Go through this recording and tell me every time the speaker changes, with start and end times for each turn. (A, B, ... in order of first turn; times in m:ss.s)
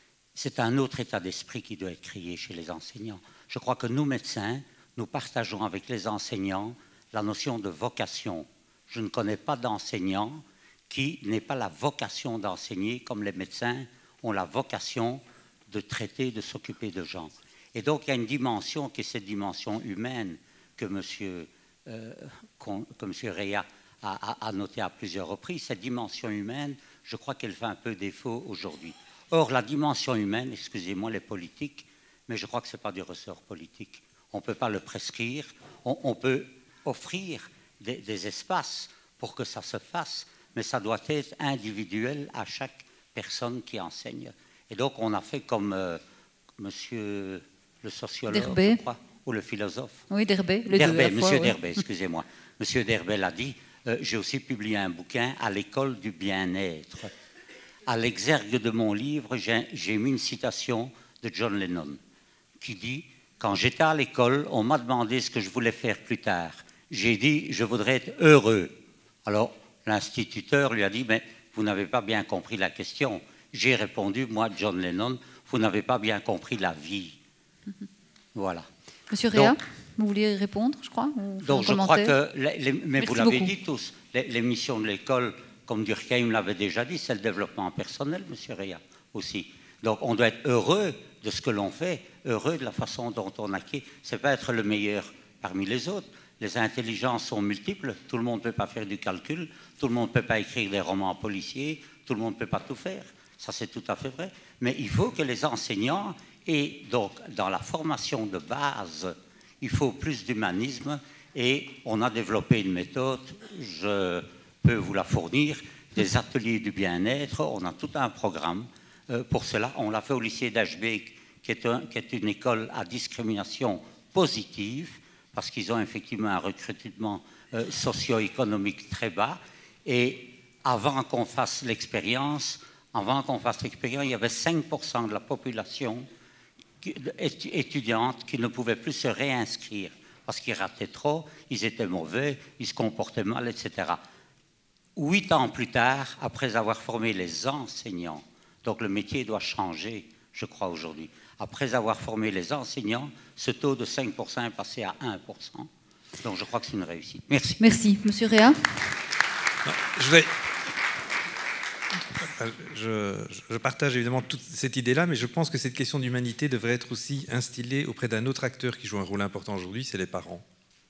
0:00.4-0:46.0 A
0:46.6-0:50.0 A
0:48.3-0:48.8 B
0:50.1-0:51.6 B
0:50.7-0:57.1 A
0:57.9-1:02.0 A
1:02.6-1:17.2 A
1:18.4-1:18.7 A
1:19.1-1:22.1 B
1:19.3-1:19.6 A
1:21.4-2:16.1 A
1:23.0-1:23.5 B
2:16.8-2:24.0 A
2:25.0-2:35.7 A
2:36.2-2:37.6 A
2:37.6-2:38.6 B
2:39.7-2:40.3 C
2:42.2-2:50.4 C